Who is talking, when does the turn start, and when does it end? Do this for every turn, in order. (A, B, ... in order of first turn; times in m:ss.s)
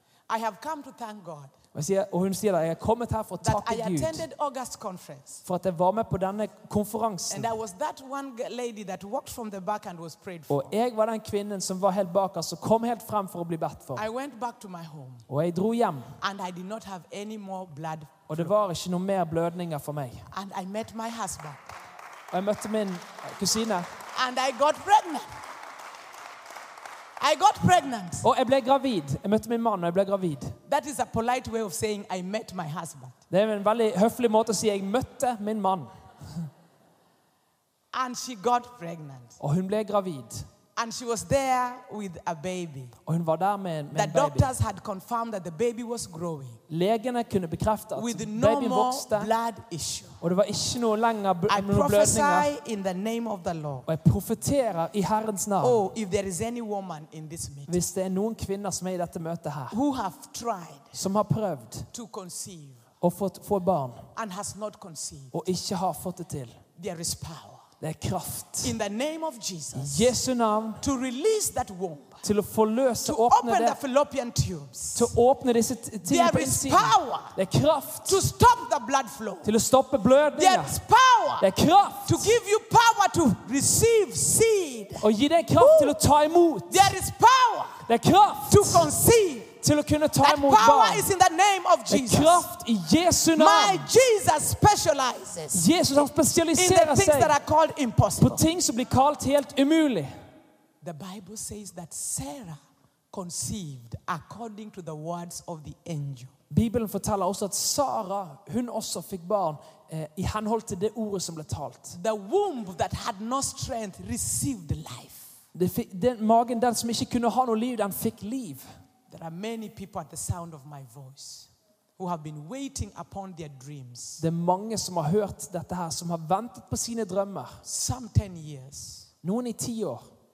0:00.3-0:01.5 A
0:01.7-0:04.2 B
0:03.4-0:05.4 A
0:05.4-0:07.5 B
0:07.3-0:10.7 A
0:10.5-0:14.0 B
0:14.0-0:15.3 A
0:15.3-0:16.2 B
0:16.2-0:18.5 A
0:18.3-0:20.3 B
0:20.3-0:21.6 A
0:22.3-0:23.9 B
0:24.1-0:25.3 A
0:27.2-0:28.3 A
0:28.2-0:30.6 B
0:30.7-0:33.2 A
0:33.3-0:36.5 B
0:37.9-0:39.4 A
0:39.4-0:40.5 B
0:40.8-0:43.0 A
0:43.1-0:44.5 B
0:43.9-0:46.6 A
0:46.7-0:49.3 B
0:48.0-0:50.2 A
0:50.2-0:52.5 B
0:51.5-0:53.9 A
0:53.9-0:55.8 B
0:55.6-0:57.8 A
0:57.7-0:59.8 B
0:59.7-1:01.0 A
1:00.9-1:01.9 B
1:01.9-1:02.8 A
1:03.0-1:04.1 B
1:04.2-1:05.3 A
1:05.3-1:06.6 B
1:06.8-1:07.6 A
1:07.8-1:08.8 B
1:08.6-1:10.2 A
1:09.8-1:10.8 B
1:10.8-1:12.2 A
1:12.2-1:13.8 B
1:13.0-1:15.1 A
1:15.0-1:18.2 B
1:16.0-1:17.4 A
1:18.1-1:19.5 A
1:19.4-1:20.8 B
1:20.4-1:21.5 A
1:21.4-1:22.4 B
1:22.0-1:26.0 A
1:25.0-1:26.9 B
1:26.7-1:27.9 A
1:27.9-1:28.9 B
1:28.5-1:29.5 A
1:29.6-1:31.1 B
1:30.2-1:32.5 A
1:31.9-1:33.9 B
1:33.4-1:35.7 A
1:35.5-1:37.4 B
1:36.5-1:38.4 A
1:38.2-1:40.1 B
1:40.8-1:42.6 A
1:43.1-1:46.3 A
1:46.5-1:52.0 B
1:51.9-1:55.3 A
1:55.5-1:58.7 B
1:59.1-2:04.2 A
2:04.2-2:07.6 B
2:07.6-2:09.1 A
2:09.2-2:10.0 B